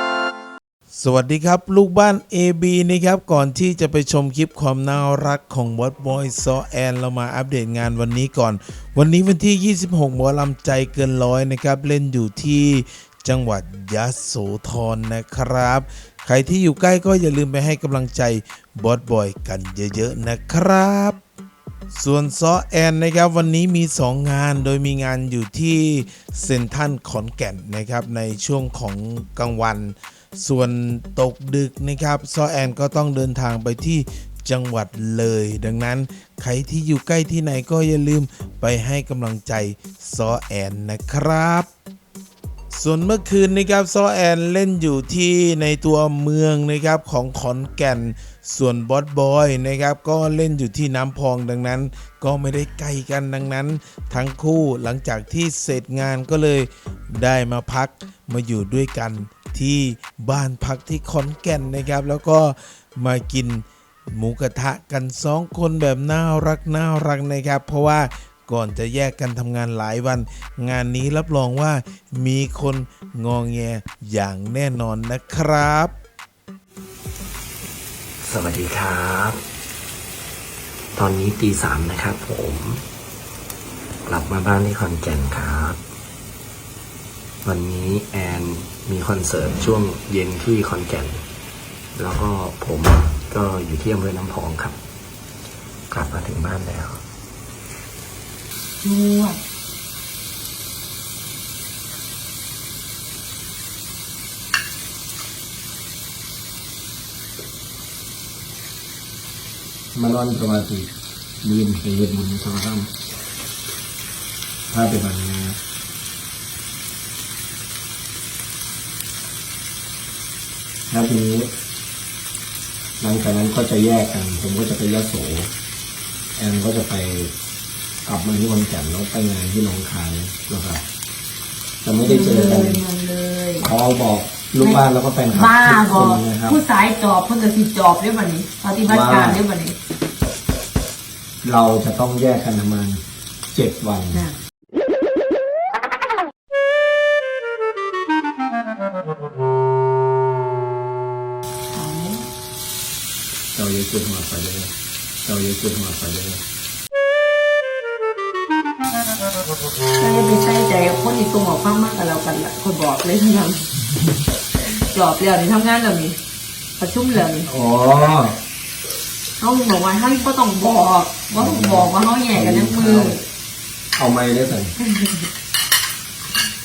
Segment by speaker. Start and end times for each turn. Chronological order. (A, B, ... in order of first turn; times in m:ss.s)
0:00.9-0:21.2 A
0:21.9-0:41.7 A
0:42.7-1:15.9 A
1:18.2-1:19.4 B
1:21.0-1:22.8 B
1:24.1-1:25.8 B
1:27.4-1:31.2 B
1:32.0-1:34.8 B
1:35.9-1:37.0 B
1:38.8-1:39.4 C
1:49.9-1:50.9 B
1:51.4-1:52.9 B
1:54.7-1:55.6 B
2:00.9-2:01.5 B
2:03.0-2:05.5 B
2:06.4-2:07.3 B
2:08.0-2:10.8 B
2:11.8-2:12.8 B
2:12.0-2:13.7 C
2:13.6-2:16.6 B
2:15.3-2:19.8 C
2:18.9-2:19.4 B
2:21.4-2:24.2 B
2:31.7-2:32.3 C
2:33.5-2:34.7 B
2:35.2-2:36.4 B
2:40.0-2:43.7 C
2:44.6-2:46.2 C
2:46.8-2:47.5 C
2:47.4-2:48.4 B
2:49.4-2:53.2 C
2:51.3-2:53.2 B
2:54.0-2:54.8 B
2:54.8-2:55.3 C